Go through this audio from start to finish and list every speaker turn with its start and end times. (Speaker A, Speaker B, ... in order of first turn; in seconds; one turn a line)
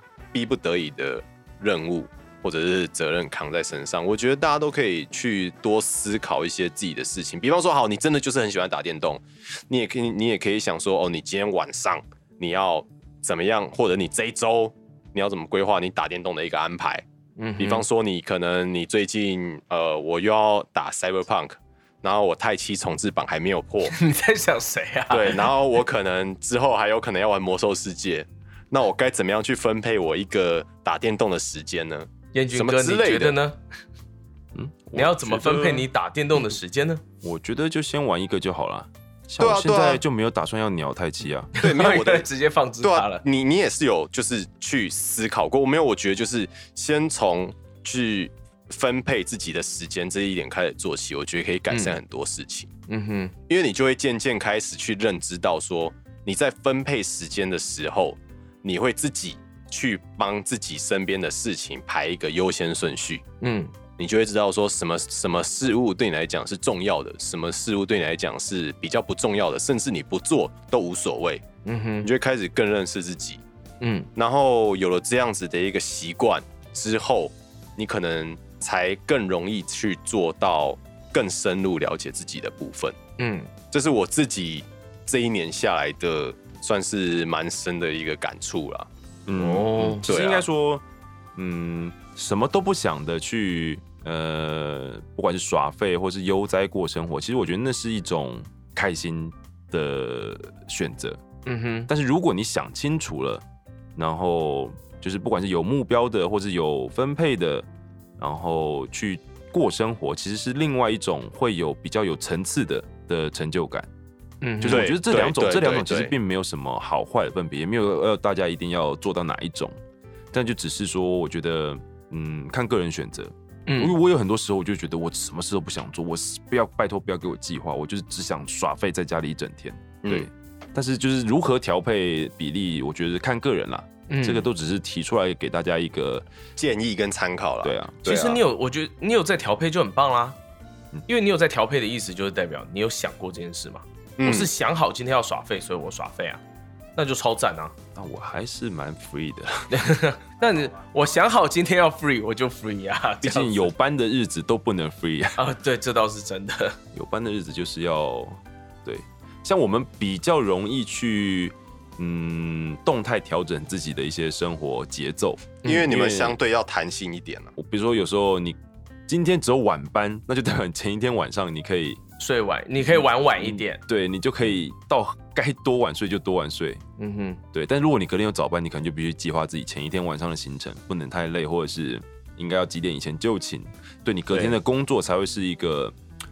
Speaker A: 0.3-17.0
Speaker B: 17.4-17.8
Speaker A: 17.6-23.9
Speaker B: 23.9-25.5
Speaker A: 25.1-33.4
Speaker B: 32.3-33.6
Speaker C: 34.5-35.9
Speaker B: 35.0-37.0
Speaker C: 37.2-41.5
Speaker A: 39.4-40.0
Speaker A: 41.5-42.3
Speaker B: 41.6-43.2
Speaker A: 42.8-52.7
Speaker B: 51.7-52.0
Speaker B: 52.9-53.3
Speaker A: 53.5-63.2
Speaker B: 63.4-63.8
Speaker A: 64.0-71.5
Speaker B: 71.7-72.1
Speaker A: 72.0-73.4
Speaker B: 73.8-74.1
Speaker A: 74.2-83.0
Speaker B: 83.2-83.5
Speaker A: 83.7-88.9
Speaker C: 89.3-90.8
Speaker B: 89.3-90.1
Speaker A: 90.1-90.5
Speaker C: 91.4-101.2
Speaker B: 101.5-101.9
Speaker C: 101.9-103.4
Speaker C: 104.0-107.7
Speaker C: 108.2-113.9
Speaker B: 114.4-114.9
Speaker C: 114.6-119.8
Speaker A: 114.6-116.1
Speaker C: 120.3-136.3
Speaker B: 123.7-124.0
Speaker A: 130.0-130.3
Speaker B: 134.1-134.5
Speaker A: 136.6-138.4
Speaker C: 137.6-138.0
Speaker B: 138.0-140.4
Speaker B: 141.1-146.4
Speaker A: 144.2-144.5
Speaker B: 147.0-147.8
Speaker C: 147.9-149.9
Speaker B: 149.7-153.7
Speaker C: 153.2-155.4
Speaker B: 155.4-156.8
Speaker C: 156.9-166.4
Speaker A: 165.6-167.5
Speaker C: 167.6-172.0
Speaker B: 172.2-173.8
Speaker C: 172.9-176.8
Speaker B: 177.0-177.4
Speaker C: 177.5-185.9
Speaker B: 184.3-184.6